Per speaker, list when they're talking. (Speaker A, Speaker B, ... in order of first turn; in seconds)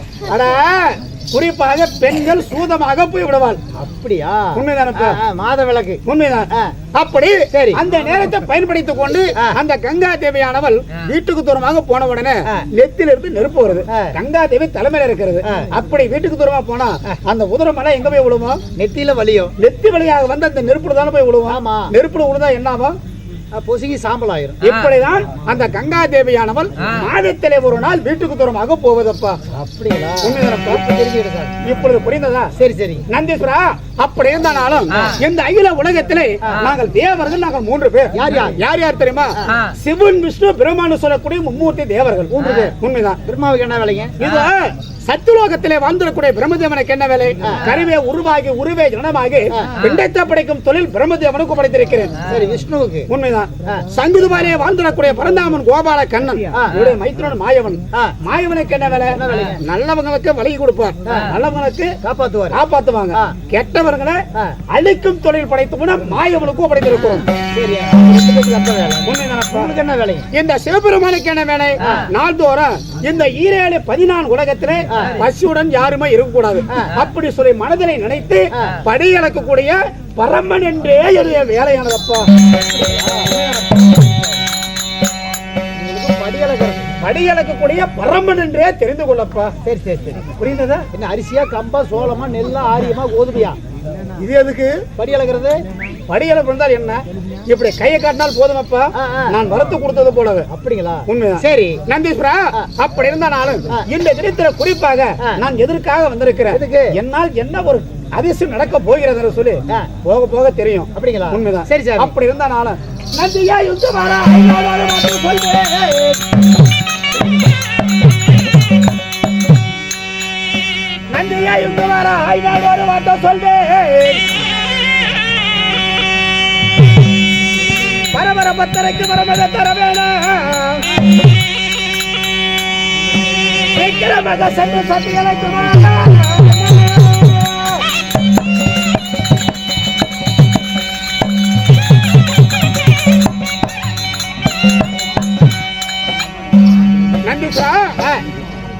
Speaker A: 0.3-3.6, 4.6-5.2, 6.0-18.6, 19.6-23.0, 24.6-29.4, 30.2-30.8, 31.6-32.5, 33.1-43.2, 44.2-52.2, 53.1-61.9, 62.5-67.3, 69.1-69.7, 70.3-82.3, 87.0-89.5, 94.2-94.8, 96.1-100.5, 101.1-116.2, 121.1-124.4, 128.1-131.0, 133.7-137.8, 147.2-148.1
Speaker B: 3.8-6.0, 7.5-7.8, 18.8-19.5, 21.5-21.9, 23.6-24.6, 29.5-31.7, 32.6-33.0, 38.1-38.6, 42.3-42.7, 43.3-44.1, 52.2-53.1, 56.5-56.9, 59.1-59.6, 61.1-61.3, 62.0-62.6, 67.4-70.3, 74.9-75.3, 82.6-83.8, 85.8-86.9, 89.6-93.6, 95.0-95.6, 99.0-99.4, 100.5-101.8, 106.5-106.9, 111.0-112.1